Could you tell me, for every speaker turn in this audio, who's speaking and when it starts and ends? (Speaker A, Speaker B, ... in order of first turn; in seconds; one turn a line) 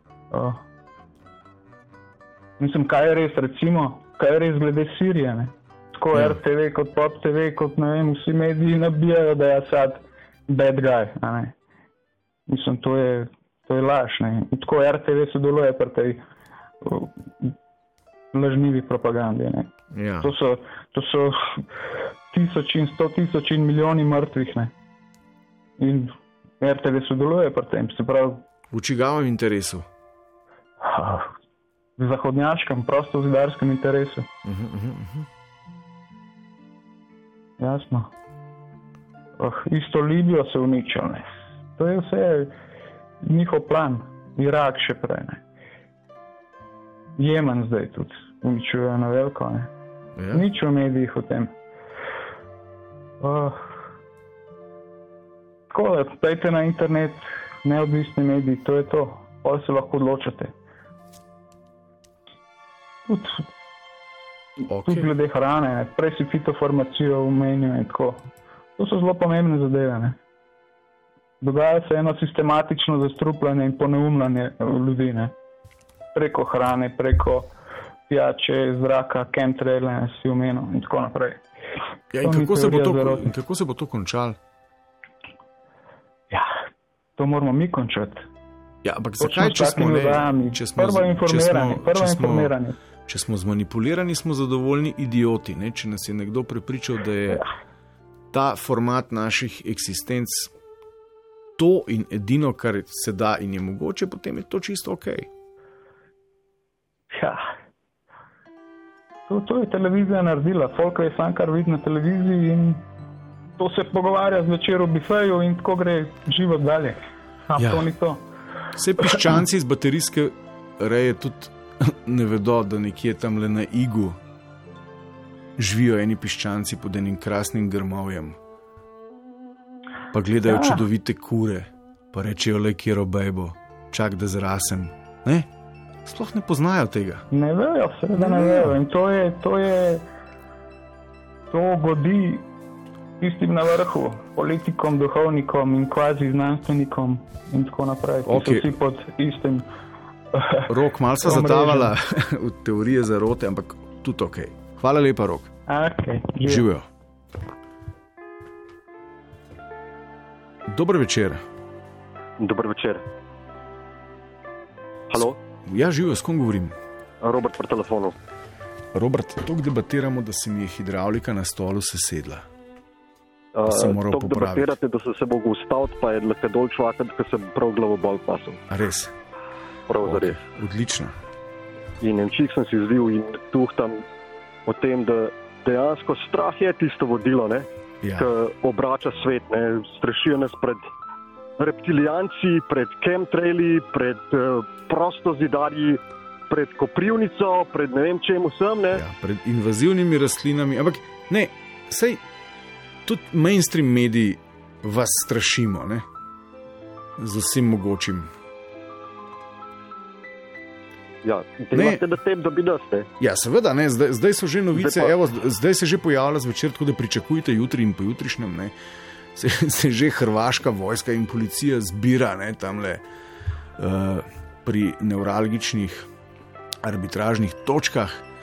Speaker A: 0.3-0.6
Speaker A: 2.6-11.5
Speaker A: 12.5-16.2
Speaker A: 16.8-17.5
Speaker A: 18.3-21.6
Speaker B: 19.9-20.3
Speaker A: 22.3-24.7
Speaker A: 25.8-28.4
Speaker B: 28.7-29.8
Speaker A: 30.8-31.3
Speaker A: 32.0-34.3
Speaker B: 34.4-35.3
Speaker A: 37.6-38.1
Speaker A: 39.4-42.5
Speaker A: 43.2-45.4
Speaker A: 47.2-49.7
Speaker B: 50.1-50.5
Speaker A: 50.3-51.5
Speaker A: 53.2-53.8
Speaker A: 55.7-60.5
Speaker A: 63.0-63.5
Speaker B: 64.7-65.1
Speaker A: 64.8-70.2
Speaker A: 71.4-75.3
Speaker A: 76.1-77.5
Speaker A: 78.1-81.4
Speaker B: 82.1-84.4
Speaker A: 82.2-83.3
Speaker A: 86.3-86.6
Speaker A: 87.2-88.3
Speaker B: 88.8-92.5
Speaker A: 89.2-92.8
Speaker B: 93.0-97.4
Speaker B: 98.3-100.5
Speaker B: 101.6-105.3
Speaker A: 107.1-107.5
Speaker A: 109.3-112.8
Speaker A: 113.6-118.2
Speaker B: 117.6-117.9
Speaker B: 118.7-124.2
Speaker A: 119.0-119.3
Speaker B: 125.6-128.4
Speaker B: 130.1-135.5
Speaker A: 130.4-130.8
Speaker B: 136.1-137.2
Speaker A: 137.3-140.0
Speaker B: 138.1-138.7
Speaker A: 141.5-142.4
Speaker A: 143.2-149.7
Speaker B: 148.2-148.7
Speaker A: 150.3-151.9
Speaker B: 150.7-155.5
Speaker A: 155.7-156.7
Speaker B: 156.4-156.8
Speaker B: 160.7-161.4
Speaker C: 162.4-163.0
Speaker C: 165.1-165.4
Speaker B: 165.7-166.7
Speaker C: 167.2-168.1
Speaker B: 168.9-172.4
Speaker C: 173.6-178.6
Speaker B: 173.7-174.7
Speaker B: 178.7-179.1
Speaker C: 179.9-180.4
Speaker B: 180.0-181.1
Speaker C: 182.0-184.0
Speaker C: 184.7-187.7
Speaker B: 188.0-188.3
Speaker C: 188.2-190.9
Speaker C: 191.6-199.0
Speaker B: 198.9-202.2
Speaker B: 203.1-206.0
Speaker B: 207.2-208.3
Speaker C: 211.2-213.1
Speaker B: 211.7-212.0
Speaker B: 213.2-218.7
Speaker C: 214.8-215.1
Speaker B: 219.3-223.0
Speaker B: 223.8-226.1
Speaker B: 226.8-228.2